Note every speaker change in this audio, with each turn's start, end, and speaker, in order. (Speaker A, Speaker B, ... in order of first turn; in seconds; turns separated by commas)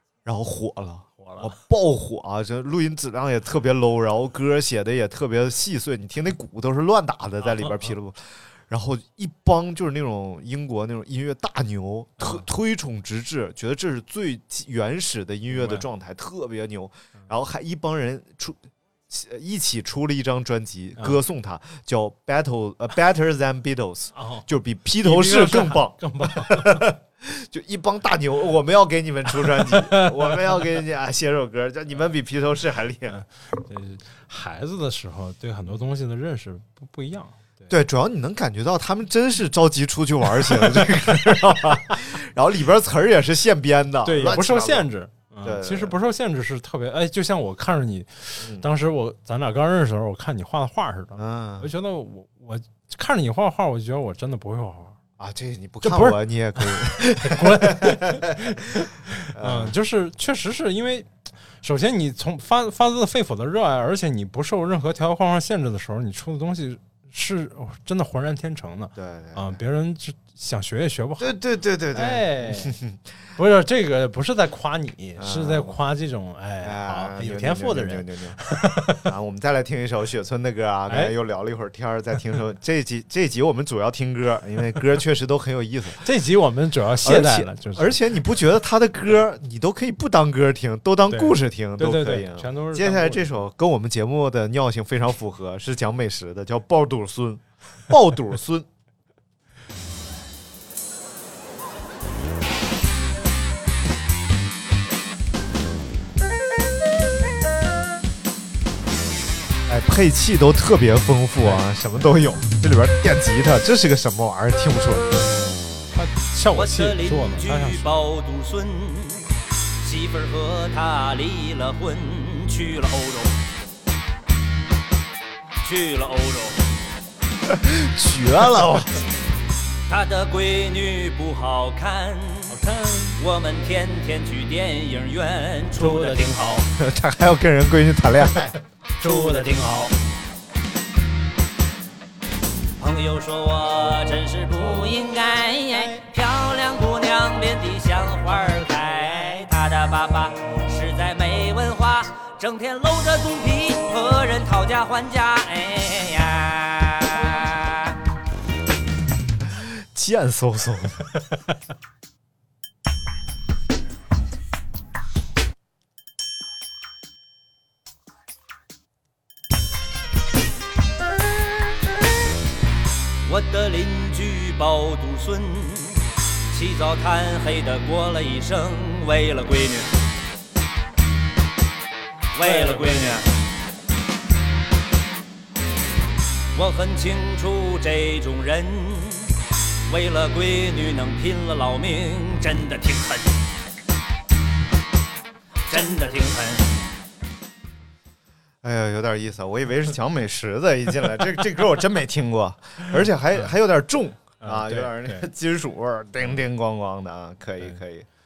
Speaker A: 0.2-33.2, Speaker B: 1.2-1.5, Speaker B: 7.4-7.9, Speaker B: 15.5-15.8, Speaker B: 24.1-24.5, Speaker B: 25.0-26.9, Speaker B: 29.4-30.6, Speaker B: 33.1-37.7, Speaker A: 37.7-44.9, Speaker B: 44.0-55.0, Speaker A: 45.4-46.0, Speaker A: 48.4-48.7, Speaker A: 51.2-51.7, Speaker A: 55.2-59.7, Speaker B: 55.8-71.3, Speaker A: 69.0-69.6, Speaker A: 71.2-73.0, Speaker B: 71.9-72.8, Speaker B: 73.3-79.1, Speaker A: 75.2-75.8, Speaker A: 76.6-78.4, Speaker A: 79.0-86.0, Speaker B: 80.9-81.1, Speaker B: 86.0-88.0, Speaker A: 87.0-98.7, Speaker B: 91.1-93.4, Speaker A: 109.7-115.3, Speaker B: 115.9-118.0, Speaker C: 116.5-123.4, Speaker C: 125.6-126.6, Speaker A: 127.5-129.0, Speaker C: 129.9-132.6, Speaker B: 132.5-133.2, Speaker C: 133.2-136.6, Speaker B: 135.8-136.6, Speaker A: 136.8-138.5, Speaker B: 139.0-139.9, Speaker C: 139.0-139.9, Speaker C: 142.8-158.0, Speaker A: 159.4-161.1, Speaker C: 173.2-179.9, Speaker C: 182.3-183.3, Speaker B: 182.4-183.2, Speaker C: 186.5-189.3, Speaker C: 189.9-193.4, Speaker C: 195.7-196.7, Speaker A: 198.6-208.1, Speaker B: 204.4-205.3